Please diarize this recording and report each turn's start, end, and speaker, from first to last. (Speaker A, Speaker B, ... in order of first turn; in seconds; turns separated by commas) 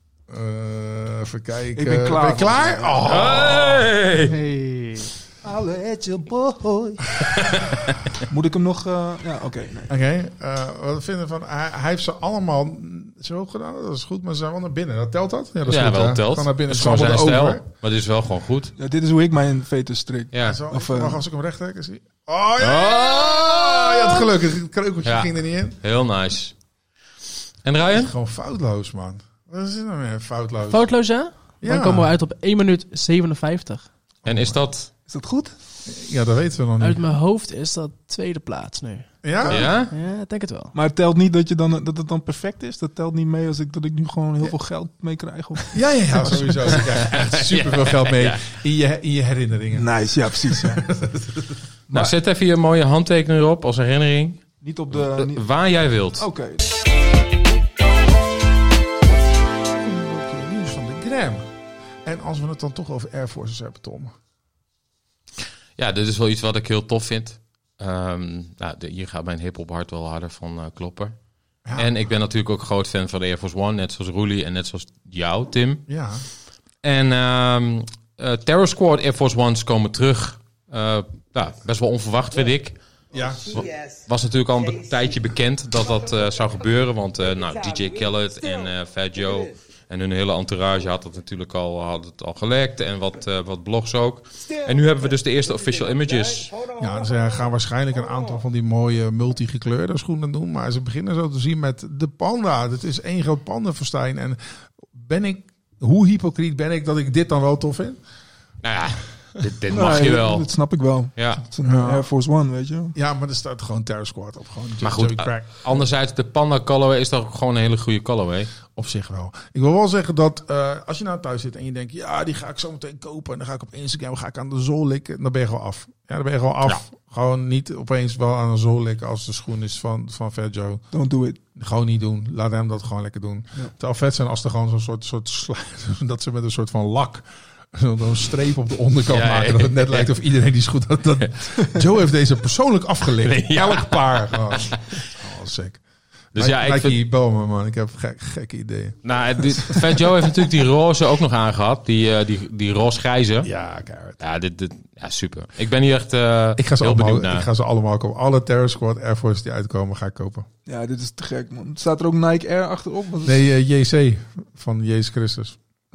Speaker A: 0.3-3.9, Speaker B: 1.8-3.1, Speaker C: 3.0-4.4, Speaker D: 4.3-5.1, Speaker B: 5.4-7.0, Speaker C: 7.3-8.0, Speaker B: 8.3-9.9, Speaker A: 9.9-17.6, Speaker C: 15.7-18.7, Speaker B: 18.8-21.2, Speaker C: 20.3-20.6, Speaker A: 20.4-25.8, Speaker C: 22.6-24.2, Speaker C: 25.0-26.6, Speaker C: 27.6-28.1, Speaker A: 27.9-30.9, Speaker D: 30.6-33.9, Speaker A: 31.6-32.1, Speaker A: 34.2-34.6, Speaker C: 34.2-34.9, Speaker B: 35.1-35.5, Speaker A: 35.9-37.0, Speaker D: 36.8-40.7, Speaker A: 39.2-39.7, Speaker B: 39.4-39.7, Speaker C: 39.5-39.9, Speaker B: 40.7-46.8, Speaker A: 45.7-51.6, Speaker C: 47.0-48.5, Speaker B: 49.7-50.9, Speaker B: 51.9-52.1, Speaker C: 51.9-56.3, Speaker B: 54.6-55.5, Speaker B: 56.2-56.6, Speaker A: 59.8-61.5, Speaker A: 62.0-64.1, Speaker C: 65.8-71.2, Speaker A: 71.7-71.9, Speaker C: 71.8-75.9, Speaker A: 75.9-76.3, Speaker C: 76.8-82.8, Speaker A: 83.1-83.6, Speaker C: 83.5-96.7, Speaker A: 96.7-104.4, Speaker A: 104.9-108.0, Speaker C: 108.6-110.5, Speaker B: 109.7-113.0, Speaker C: 111.2-111.4, Speaker A: 111.6-112.1, Speaker A: 113.0-115.8, Speaker C: 114.8-118.5, Speaker A: 118.7-130.9, Speaker B: 130.9-131.4, Speaker A: 131.6-145.8, Speaker C: 139.1-140.1, Speaker C: 143.2-145.0, Speaker C: 146.3-147.0, Speaker A: 146.3-149.8, Speaker C: 149.0-153.5, Speaker A: 153.4-154.2, Speaker C: 154.2-157.5, Speaker A: 156.6-160.5, Speaker B: 160.7-163.4, Speaker A: 163.2-165.6